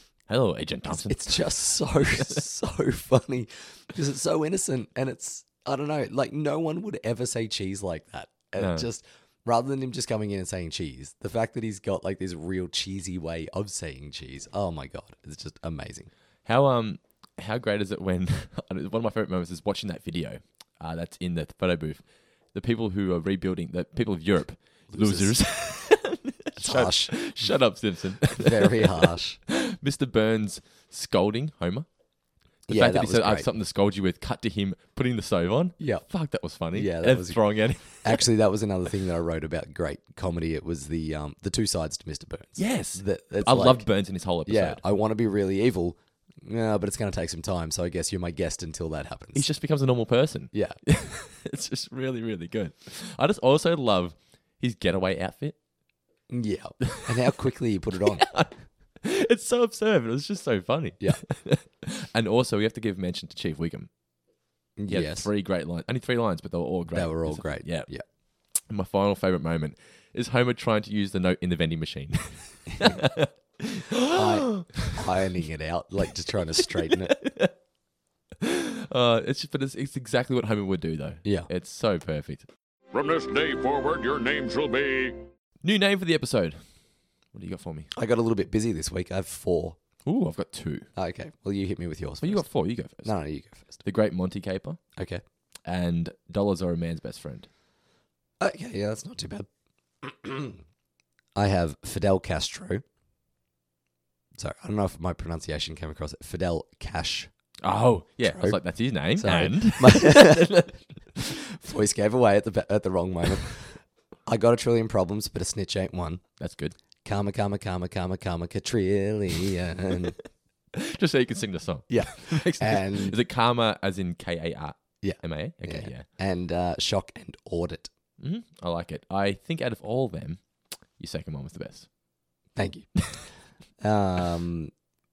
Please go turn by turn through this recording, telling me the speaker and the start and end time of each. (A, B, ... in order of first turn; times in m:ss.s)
0:00.3-0:01.4 A
0:00.9-0:16.1 B
0:08.6-0:08.8 A
0:16.4-0:22.0 A
0:22.5-0:31.9 A
0:24.9-0:25.8 B
0:26.6-0:27.2 B
0:28.4-0:29.4 B
0:32.7-0:33.5 B
0:32.7-0:38.2 A
0:35.8-0:36.0 B
0:36.7-0:43.9 B
0:42.6-0:44.8 A
0:44.4-0:49.5 B
0:49.3-0:55.6 A
0:50.5-0:50.8 B
0:56.3-0:58.3 B
0:58.2-0:58.5 A
0:59.0-1:03.9 A
1:04.8-1:05.3 B
1:04.9-1:07.9 A
1:06.9-1:08.0 B
1:08.7-1:15.0 A
1:14.1-1:17.2 B
1:17.2-1:17.5 A
1:18.4-1:22.5 A
1:21.2-1:21.5 B
1:22.9-1:25.2 C
1:25.6-1:26.6 A
1:27.3-1:27.9 A
1:27.9-1:29.8 B
1:30.0-1:30.9 A
1:30.9-1:32.4 B
1:32.2-1:33.1 A
1:33.0-1:33.8 B
1:33.8-1:34.8 A
1:35.0-1:35.2 B
1:35.7-1:37.5 A
1:38.4-1:39.5 B
1:40.0-1:40.6 B
1:41.3-1:42.8 B
1:44.4-1:47.3 B
1:47.6-1:50.8 A
1:48.2-1:48.6 B
1:49.2-1:56.2 B
1:56.4-1:56.8 A
1:57.0-2:00.2 B
2:00.7-2:06.1 A
2:01.9-2:03.2 B
2:05.0-2:07.9 B
2:08.2-2:10.4 A
2:11.0-2:11.9 A
2:12.6-2:13.1 B
2:13.8-2:14.7 B